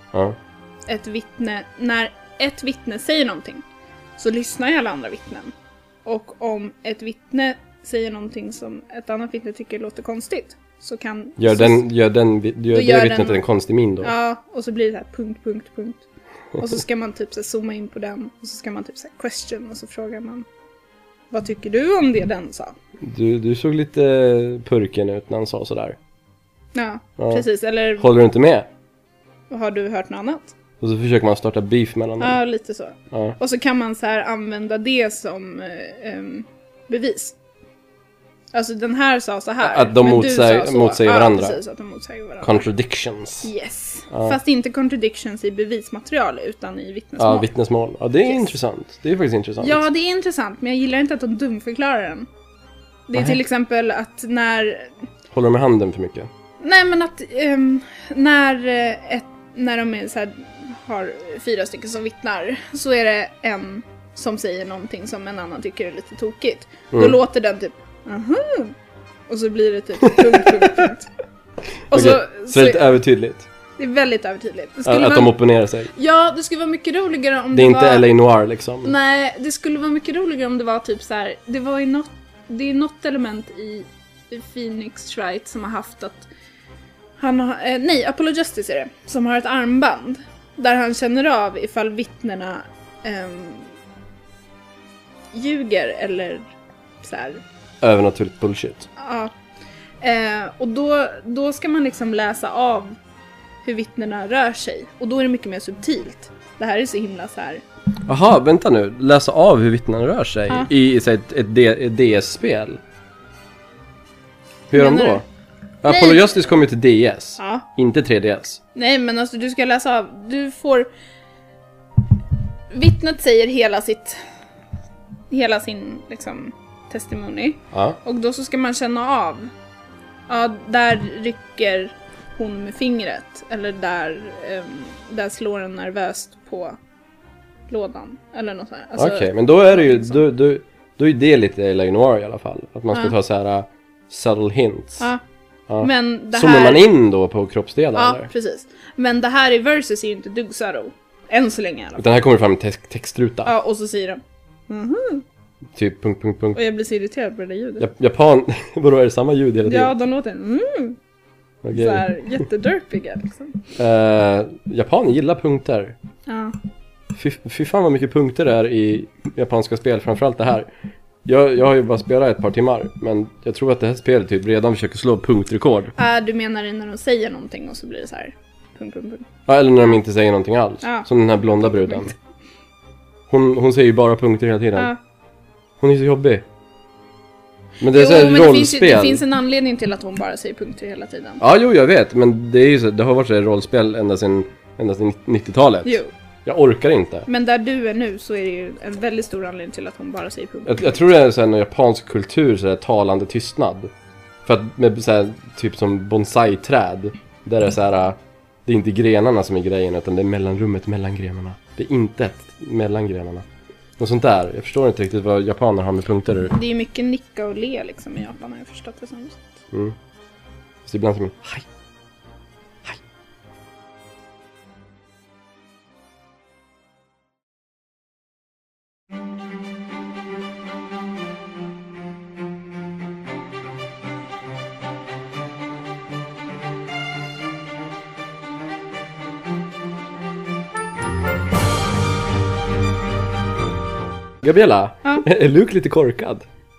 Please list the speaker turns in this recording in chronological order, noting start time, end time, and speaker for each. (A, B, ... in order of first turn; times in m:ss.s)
0:00.9-0:03.6 A
0:04.2-0:05.5 A
0:06.0-0:11.8 A
0:11.4-0:14.1 B
0:12.7-0:13.4 A
0:14.0-0:16.0 A
0:16.6-0:20.5 A
0:21.3-0:22.8 A
0:23.0-0:26.0 B
0:26.7-0:28.1 A
0:27.2-0:27.4 B
0:28.0-0:28.7 B
0:29.5-0:30.5 A
0:30.8-0:32.4 B
0:32.2-0:37.4 A
0:38.5-0:42.7 A
0:39.6-0:41.6 B
0:42.4-0:43.5 B
0:43.4-0:47.5 A
0:44.1-0:44.4 B
0:47.2-0:49.8 B
0:49.6-0:52.3 A
0:53.1-0:54.9 A
0:55.3-0:56.3 B
0:56.6-1:08.7 A
1:06.9-1:07.2 B
1:09.3-1:11.1 A
1:11.9-1:13.0 A
1:11.9-1:13.5 B
1:13.8-1:15.4 A
1:14.8-1:15.9 B
1:15.9-1:18.1 A
1:17.5-1:18.9 B
1:18.8-1:26.3 A
1:27.2-1:33.7 A
1:35.3-1:37.4 A
1:37.8-1:38.9 B
1:39.0-1:39.3 A
1:40.0-1:43.0 A
1:43.6-1:47.6 A
1:48.1-1:52.8 B
1:54.7-1:55.2 B
1:54.7-1:55.2 A
1:55.8-1:58.6 B
1:55.8-1:56.3 A
1:57.4-1:57.6 A
1:58.7-2:00.9 A
2:02.7-2:04.2 A
2:05.3-2:09.5 A
2:07.7-2:08.0 B
2:10.3-2:16.8 A
2:17.7-2:20.2 A
2:19.0-2:25.1 B
2:25.7-2:28.3 B
2:25.8-2:26.9 A
2:27.9-2:32.0 A
2:32.0-2:33.5 B
2:33.4-2:35.2 A
2:35.7-2:36.6 B
2:36.5-2:37.9 A
2:37.8-2:39.9 B
2:39.6-2:41.0 A
2:41.6-2:42.1 B
2:41.7-2:43.6 A
2:43.8-2:46.0 B
2:46.3-2:46.5 A
2:47.1-2:50.7 B
2:51.2-2:55.9 B
2:56.0-2:59.3 A
2:59.5-3:02.1 B
3:00.8-3:01.1 A
3:01.6-3:02.1 A
3:03.3-3:04.9 B
3:05.8-3:06.4 B
3:07.8-3:09.2 B
3:07.9-3:11.4 A
3:11.4-3:17.3 B
3:15.8-3:16.1 A
3:17.3-3:21.0 A
3:20.6-3:23.9 B
3:24.4-3:33.4 B
3:34.0-3:36.5 B
3:36.5-3:39.5 A
3:40.8-3:41.6 B
4:04.4-4:06.5 B